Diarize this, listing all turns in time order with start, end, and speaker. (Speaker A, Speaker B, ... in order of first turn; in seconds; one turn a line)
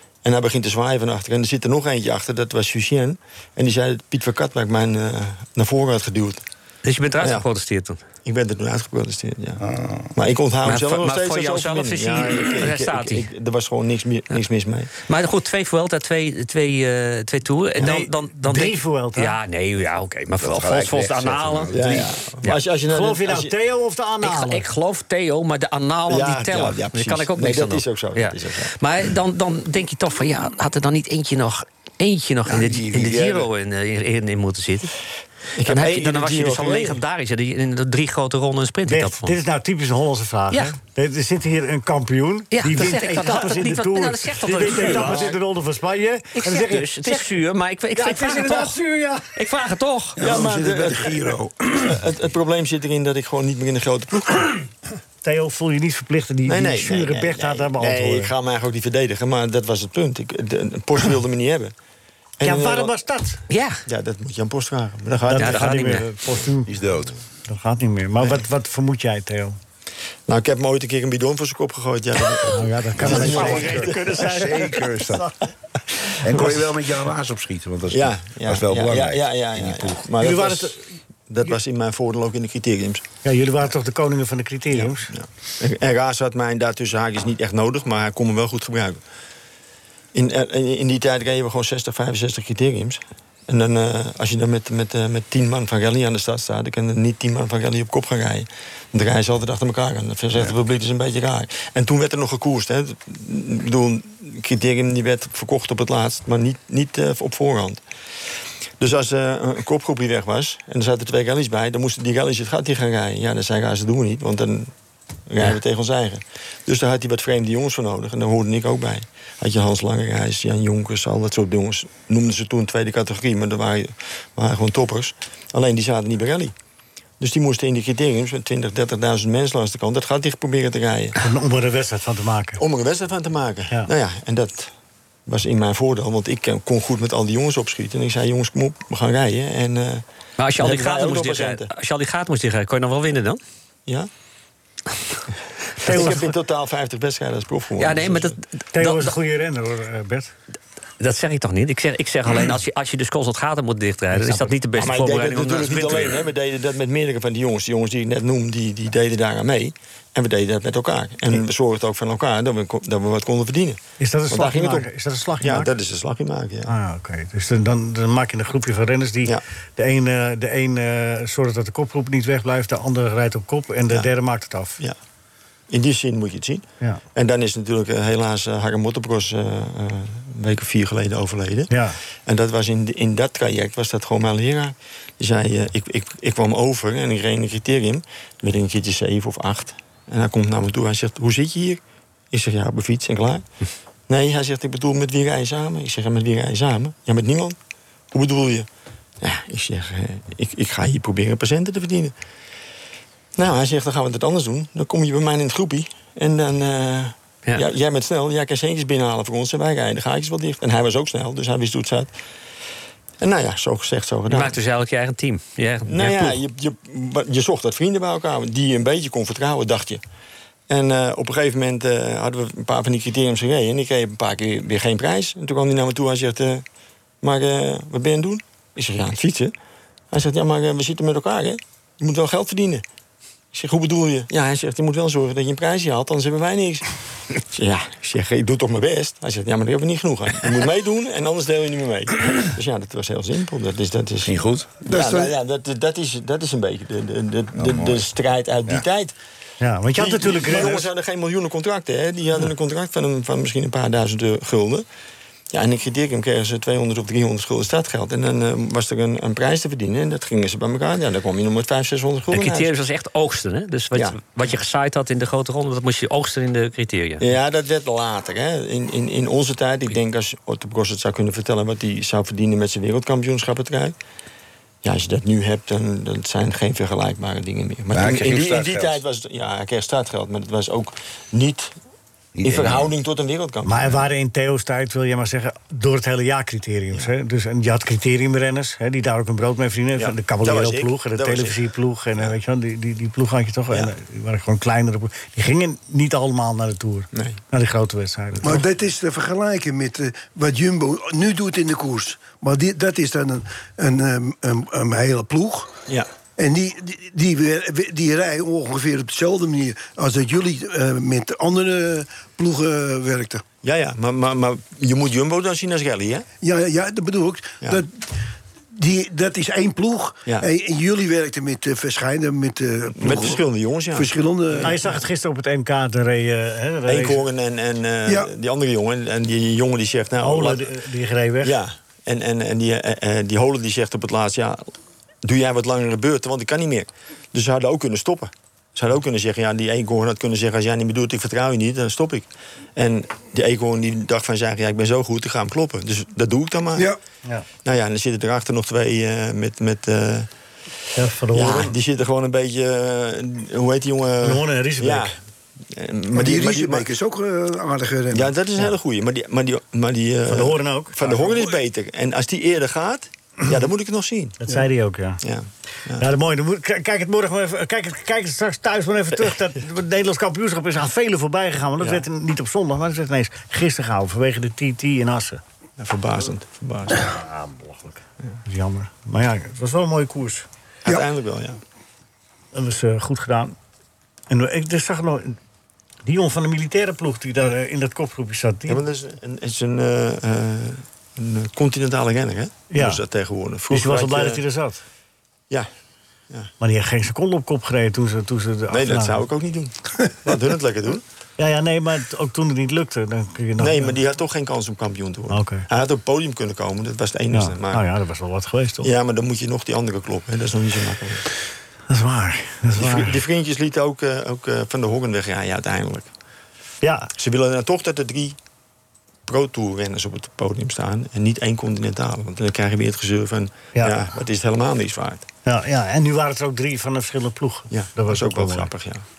Speaker A: 0.2-6.4
Speaker B: 6.8-8.0
Speaker A: 7.2-7.4
Speaker A: 8.2-9.6
Speaker C: 9.6-10.1
Speaker A: 10.1-14.9
Speaker B: 10.6-13.3
Speaker B: 15.0-21.9
Speaker D: 17.8-19.4
Speaker C: 20.4-22.2
Speaker A: 21.7-23.5
Speaker D: 22.9-24.7
Speaker B: 24.2-34.9
Speaker A: 26.1-28.7
Speaker C: 32.5-33.5
Speaker A: 35.6-37.0
Speaker B: 35.6-39.3
Speaker D: 38.9-47.3
Speaker B: 42.5-45.4
Speaker A: 45.0-45.3
Speaker B: 46.4-48.8
Speaker D: 47.9-49.3
Speaker B: 49.3-50.2
Speaker E: 50.2-51.8
Speaker A: 50.2-54.7
Speaker D: 55.2-58.3
Speaker A: 56.4-61.7
Speaker A: 62.4-62.9
Speaker D: 62.4-63.4
Speaker B: 63.5-63.8
Speaker A: 63.9-66.0
Speaker D: 65.2-66.8
Speaker B: 65.3-66.0
Speaker C: 66.7-67.1
Speaker D: 67.5-69.6
Speaker A: 70.3-74.5
Speaker D: 72.5-75.3
Speaker C: 73.0-75.3
Speaker A: 76.1-76.6
Speaker C: 76.2-80.0
Speaker A: 77.9-80.8
Speaker D: 80.2-80.8
Speaker A: 81.3-83.0
Speaker D: 83.2-85.1
Speaker A: 84.7-89.0
Speaker A: 90.1-107.8
Speaker A: 108.8-114.7
Speaker A: 115.3-126.5
Speaker A: 127.2-131.2
Speaker D: 131.2-132.6
Speaker A: 132.6-134.7
Speaker A: 135.3-140.0
Speaker B: 140.4-143.4
Speaker A: 140.6-141.7
Speaker A: 145.8-148.4
Speaker D: 145.8-146.3
Speaker B: 147.8-149.1
Speaker D: 148.7-150.3
Speaker B: 151.0-156.2
Speaker D: 154.1-154.5
Speaker A: 154.8-166.7
Speaker D: 164.0-165.7
Speaker D: 166.7-174.8
Speaker A: 175.7-181.7
Speaker D: 181.7-182.0
Speaker A: 182.2-193.5
Speaker A: 194.1-197.6
Speaker A: 198.1-198.7
Speaker A: 199.2-202.1
Speaker A: 203.3-212.1
Speaker A: 213.2-214.6
Speaker B: 214.3-216.4
Speaker A: 215.9-220.0
Speaker A: 220.7-226.6
Speaker A: 227.2-229.5
Speaker A: 230.1-232.8
Speaker A: 233.5-249.1
Speaker C: 244.2-244.7
Speaker E: 244.8-245.3
Speaker C: 247.5-248.1
Speaker D: 249.6-250.9
Speaker A: 249.9-254.8
Speaker A: 255.5-262.7
Speaker B: 262.3-267.2
Speaker A: 267.2-273.9
Speaker A: 274.8-281.7
Speaker C: 277.9-279.0
Speaker C: 282.3-282.9
Speaker A: 282.4-283.9
Speaker D: 283.6-298.6
Speaker A: 290.0-291.6
Speaker A: 297.1-297.4
Speaker E: 298.4-305.7
Speaker E: 306.4-313.4
Speaker A: 313.6-316.2
Speaker E: 316.4-318.2
Speaker E: 318.7-324.8
Speaker A: 322.9-325.0
Speaker D: 324.6-327.2
Speaker A: 326.9-330.7
Speaker D: 330.2-331.6
Speaker A: 331.4-334.7
Speaker A: 335.2-346.9
Speaker A: 347.6-350.3
Speaker D: 350.9-351.7
Speaker A: 351.3-355.2
Speaker D: 354.2-355.1
Speaker A: 355.7-356.9
Speaker E: 356.1-358.3
Speaker A: 358.1-364.4
Speaker D: 360.3-361.3
Speaker D: 364.4-365.2
Speaker A: 365.2-366.1
Speaker D: 366.0-375.4
Speaker A: 371.8-372.0
Speaker A: 375.8-377.1
Speaker D: 377.0-380.4
Speaker A: 380.8-381.6
Speaker D: 382.5-383.6
Speaker D: 384.3-385.4
Speaker D: 386.0-388.8
Speaker A: 388.7-394.4
Speaker D: 392.7-393.0
Speaker D: 393.7-394.8
Speaker D: 396.6-399.3
Speaker A: 398.7-401.0
Speaker D: 401.4-403.9
Speaker A: 403.6-407.8
Speaker D: 405.3-405.6
Speaker D: 407.3-408.9
Speaker A: 408.8-411.2
Speaker D: 411.9-413.2
Speaker A: 412.8-416.1
Speaker D: 416.8-417.1
Speaker A: 417.2-418.4
Speaker A: 419.2-425.3
Speaker D: 425.4-428.7
Speaker A: 427.7-429.0